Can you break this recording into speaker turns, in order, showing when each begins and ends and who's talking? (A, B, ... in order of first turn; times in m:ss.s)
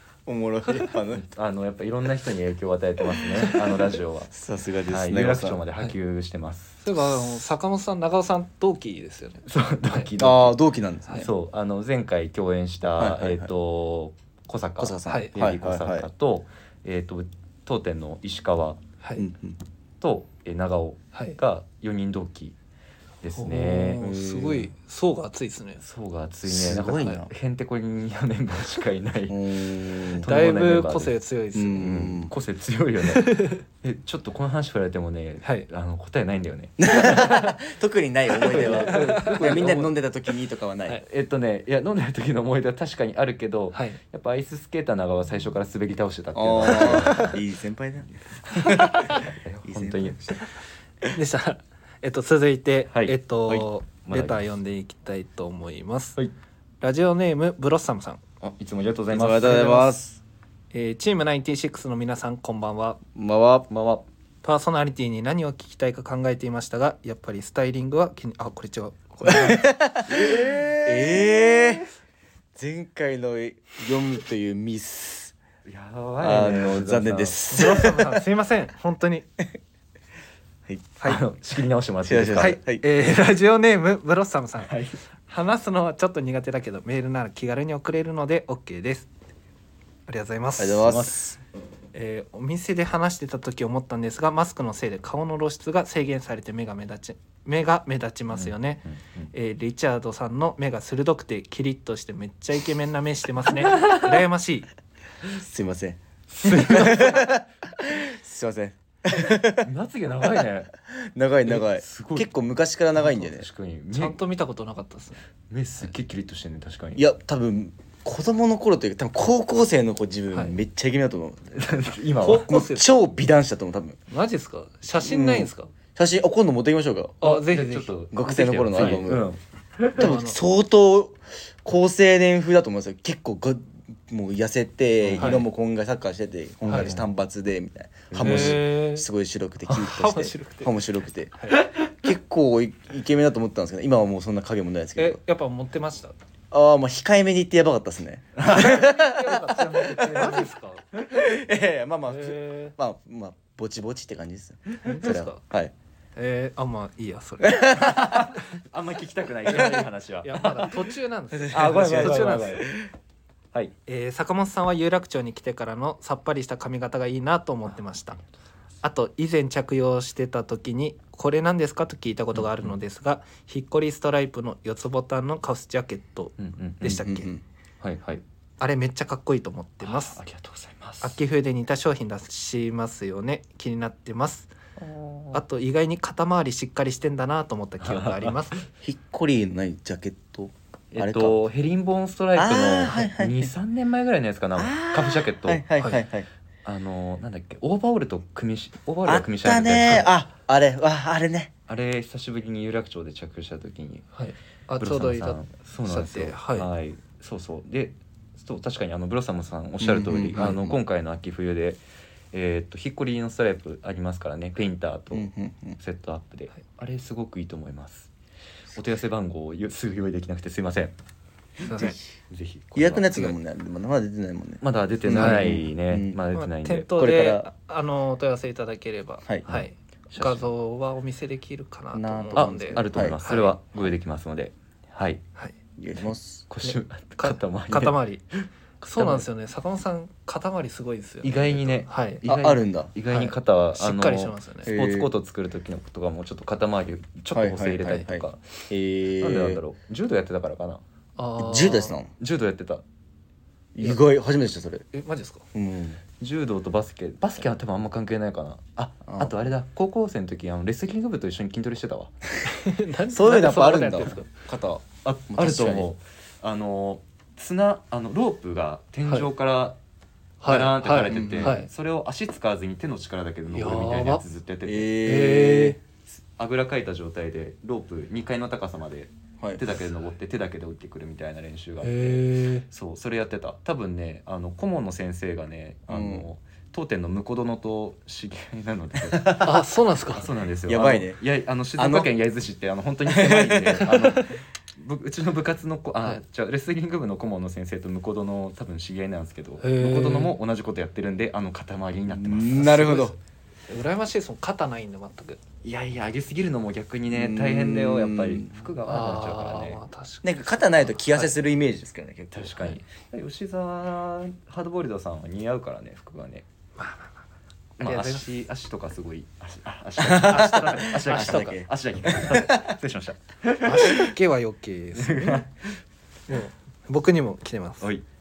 0:00.3-0:01.2 A
0:01.2-0:04.3 B
0:04.3-0:05.6 A
0:04.9-0:06.8 B
0:06.8-0:10.1 C
0:09.5-0:10.6 B
0:10.2-0:11.3 A
0:11.2-0:18.8 B
0:13.0-0:13.5 A
0:14.8-0:16.1 A
0:15.1-0:15.3 C
0:19.0-0:19.3 C
0:19.2-0:19.6 A
0:20.0-0:22.6 B
0:23.2-0:24.6 B
0:23.3-0:25.8 C
0:25.8-0:29.5 B
0:26.5-0:27.3 A
0:27.0-0:27.2 C
0:29.3-0:30.3 A
0:30.1-0:31.1 B
0:30.2-0:31.9 C
0:31.6-0:32.3 A
0:31.8-0:37.4 B
0:33.1-0:33.6 C
0:36.8-0:41.0 A
0:38.4-0:39.9 B
0:38.5-0:39.6 C
0:41.0-0:47.4 B
0:43.7-0:44.0 C
0:46.4-0:50.4 A
0:48.5-0:50.3 B
0:48.6-0:49.2 C
0:51.1-0:56.2 C
0:52.9-0:54.4 B
0:56.8-0:58.2 C
0:58.4-0:59.9 B
0:59.1-1:00.2 A
0:59.4-0:59.9 C
1:00.7-1:03.0 C
1:03.2-1:03.7 A
1:03.7-1:04.1 B
1:04.4-1:09.7 C
1:09.2-1:11.9 A
1:10.4-1:10.6 C
1:12.6-1:15.4 A
1:15.7-1:17.4 B
1:16.2-1:18.1 A
1:17.5-1:19.3 C
1:21.0-1:22.6 B
1:22.0-1:22.8 A
1:22.4-1:24.8 C
1:24.6-1:25.0 B
1:25.3-1:29.1 C
1:30.1-1:31.1 C
1:30.6-1:31.4 A
1:30.9-1:31.2 B
1:31.9-1:44.7 C
1:38.3-1:39.3 B
1:43.8-1:44.1 B
1:45.3-1:49.7 A
1:46.3-1:47.4 B
1:49.5-1:50.7 B
1:50.9-1:53.5 A
1:51.4-1:52.3 B
1:53.0-1:54.2 B
1:53.9-1:55.2 C
1:55.5-1:57.0 B
1:57.0-2:01.7 A
2:01.6-2:02.6 B
2:02.2-2:03.0 C
2:02.5-2:04.0 A
2:04.1-2:05.7 C
2:05.0-2:07.2 A
2:07.2-2:07.9 C
2:07.2-2:10.1 B
2:08.1-2:09.3 A
2:10.0-2:25.2 A
2:10.0-2:10.4 C
2:15.0-2:15.4 B
2:15.2-2:15.4 C
2:16.7-2:17.0 C
2:16.7-2:17.0 B
2:18.1-2:18.6 B
2:18.2-2:19.0 C
2:19.7-2:20.7 C
2:21.4-2:21.6 C
2:25.0-2:26.2 C
2:26.5-2:30.3 A
2:28.4-2:31.1 B
2:28.5-2:30.8 C
2:31.1-2:35.7 A
2:32.1-2:32.8 C
2:34.8-2:35.4 C
2:36.2-2:38.2 C
2:37.4-2:38.4 A
2:37.8-2:40.7 B
2:39.5-2:39.8 A
2:39.5-2:42.7 C
2:41.3-2:42.9 A
2:41.5-2:42.7 B
2:43.9-2:48.2 C
2:48.8-2:57.3 C
2:52.4-2:52.7 B
2:56.4-2:57.0 B
2:56.9-2:57.4 A
2:57.8-2:58.2 B
2:58.6-3:00.2 C
2:59.8-3:01.2 B
3:01.0-3:04.5 C
3:04.8-3:05.4 B
3:05.3-3:08.6 C
3:07.8-3:08.5 B
3:08.8-3:11.4 A
3:10.9-3:15.6 B
3:12.4-3:13.5 A
3:14.6-3:16.3 A
3:16.7-3:20.1 B
3:19.1-3:21.5 A
3:21.7-3:24.1 B
3:24.2-3:26.7 C
3:24.8-3:31.8 B
3:29.8-3:30.8 A
3:32.3-3:38.1 B
3:35.1-3:35.8 A
3:38.7-3:40.9 B
3:41.6-3:42.0 C
3:41.6-3:42.0 A
3:42.3-3:43.4 B
3:42.8-3:46.2 A
3:44.6-3:46.9 B
3:45.2-3:45.5 C
3:46.3-3:53.6 C
3:47.0-3:47.5 A
3:49.5-3:50.4 B
3:51.9-3:53.2 A
3:52.3-3:55.2 B
3:55.8-3:56.4 A
3:56.5-3:58.0 B
3:56.6-3:58.2 C
3:58.8-4:02.2 C
3:59.0-3:59.2 B
4:01.2-4:08.5 B
4:02.2-4:02.9 A
4:03.1-4:04.7 C
4:04.7-4:05.1 A
4:07.3-4:09.6 A
4:09.2-4:10.8 B
4:11.2-4:12.0 C
4:11.4-4:12.1 A
4:12.2-4:12.8 B
4:13.8-4:14.9 A
4:14.9-4:15.4 C
4:15.5-4:16.0 A
4:16.2-4:22.1 B
4:19.1-4:19.4 A
4:22.5-4:24.3 C
4:23.1-4:25.9 A
4:25.0-4:29.8 B
4:30.4-4:31.7 C
4:30.4-4:34.9 B
4:31.1-4:31.6 A
4:33.5-4:34.2 C
4:34.6-4:35.8 A
4:35.0-4:35.8 C
4:36.4-4:54.3 B
4:41.8-4:42.6 C
4:45.9-4:46.3 A
4:49.3-4:50.3 C
4:50.7-4:51.2 A
4:51.8-4:52.1 A
4:53.1-4:54.2 A
4:54.0-4:54.3 C
4:54.8-5:03.2 B
4:59.6-5:00.3 C
5:02.1-5:03.2 A
5:03.7-5:05.4 C
5:05.6-5:09.8 B
5:07.1-5:08.6 A
5:08.8-5:11.3 C
5:10.2-5:12.7 A
5:12.3-5:16.4 B
5:16.8-5:17.2 C
5:17.8-5:24.1 B
5:17.8-5:18.3 C
5:20.0-5:22.7 A
5:20.2-5:21.6 C
5:23.6-5:25.4 C
5:25.0-5:25.5 B
5:26.3-5:27.9 C